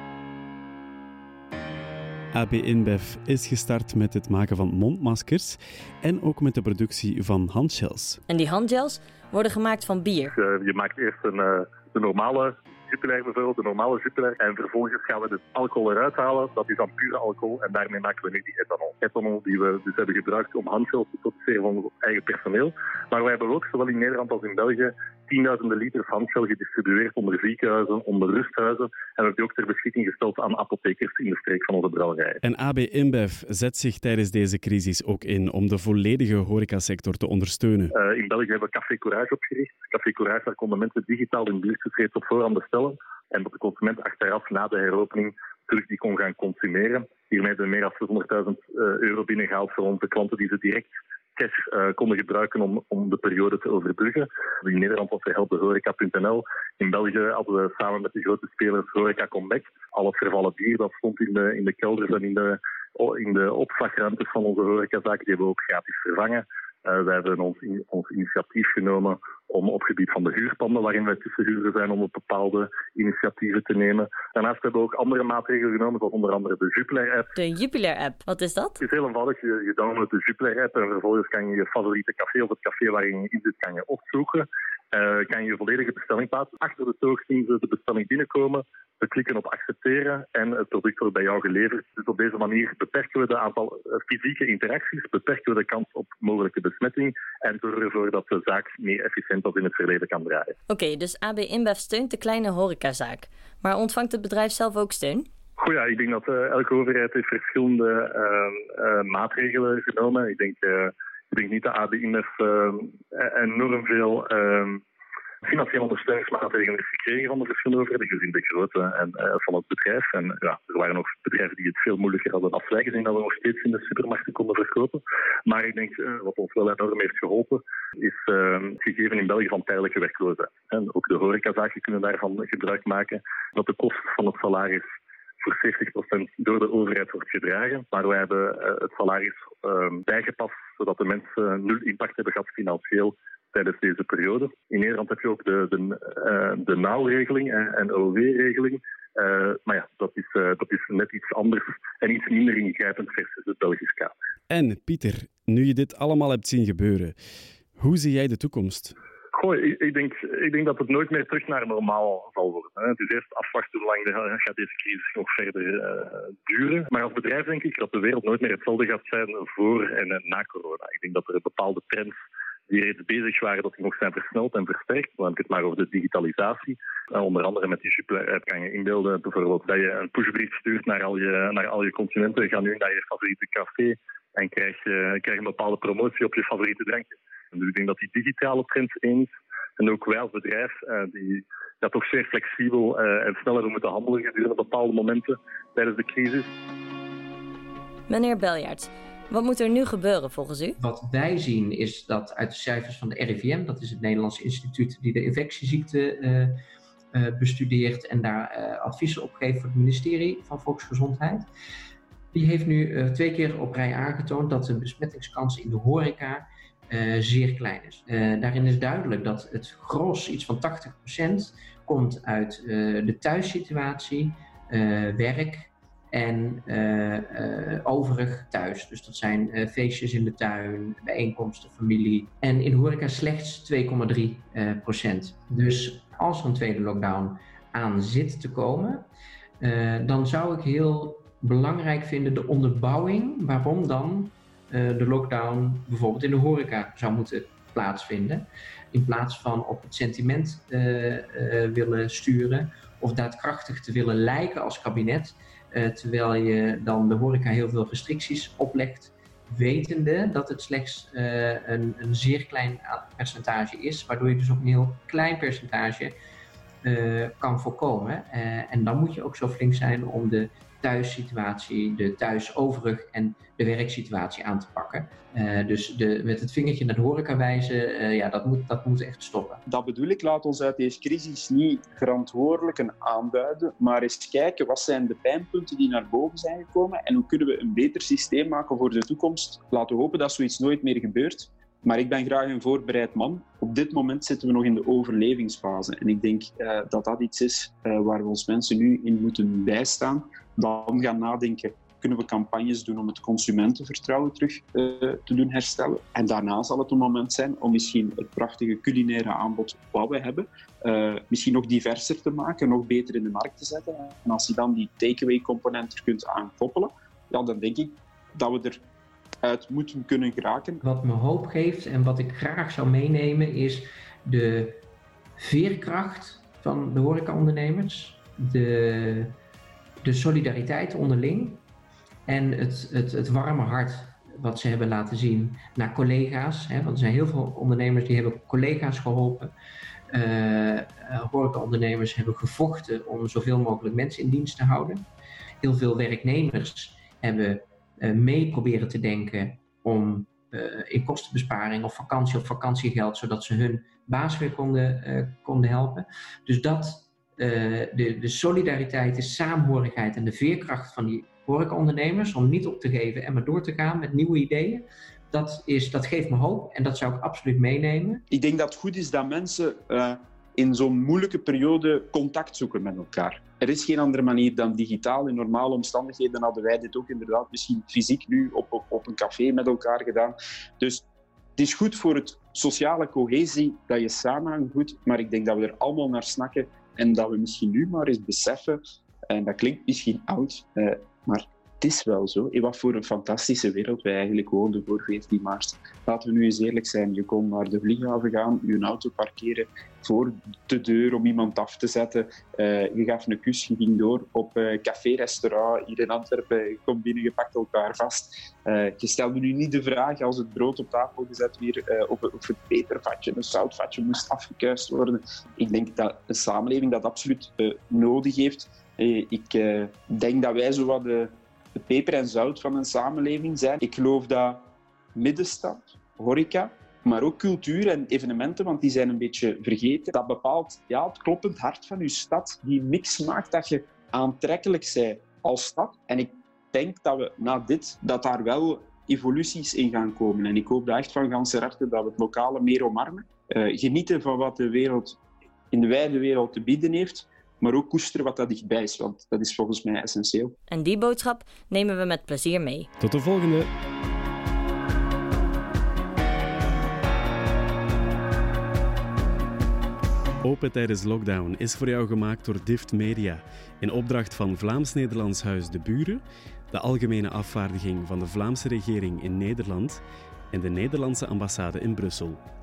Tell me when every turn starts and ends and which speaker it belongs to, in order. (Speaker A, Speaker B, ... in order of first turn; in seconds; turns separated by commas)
Speaker A: 2.3-8.2, Speaker B: 8.3-10.3, Speaker C: 10.3-32.4, Speaker A: 32.4-37.9, Speaker C: 37.9-77.3, Speaker B: 77.4-78.8, Speaker C: 78.8-100.6, Speaker B: 100.7-105.3, Speaker C: 105.6-114.8, Speaker C: 115.5-134.9, Speaker C: 135.4-154.1, Speaker A: 154.5-157.2, Speaker A: 157.8-158.9, Speaker C: 159.3-196.5, Speaker B: 198.1-200.8, Speaker D: 200.8-206.6, Speaker D: 207.1-211.5, Speaker D: 212.3-239.1, Speaker D: 239.6-266.1, Speaker D: 266.8-279.6, Speaker E: 279.7-318.8, Speaker E: 319.4-320.8, Speaker D: 320.8-324.8, Speaker D: 325.4-329.4, Speaker D: 330.0-331.6, Speaker D: 332.3-339.5, Speaker D: 340.1-345.1, Speaker D: 345.6-368.2, Speaker E: 368.3-381.1, Speaker E: 381.6-445.2, Speaker E: 445.7-450.5, Speaker B: 450.7-452.9, Speaker A: 453.0-453.7, Speaker A: 460.4-470.0, Speaker A: 470.5-472.4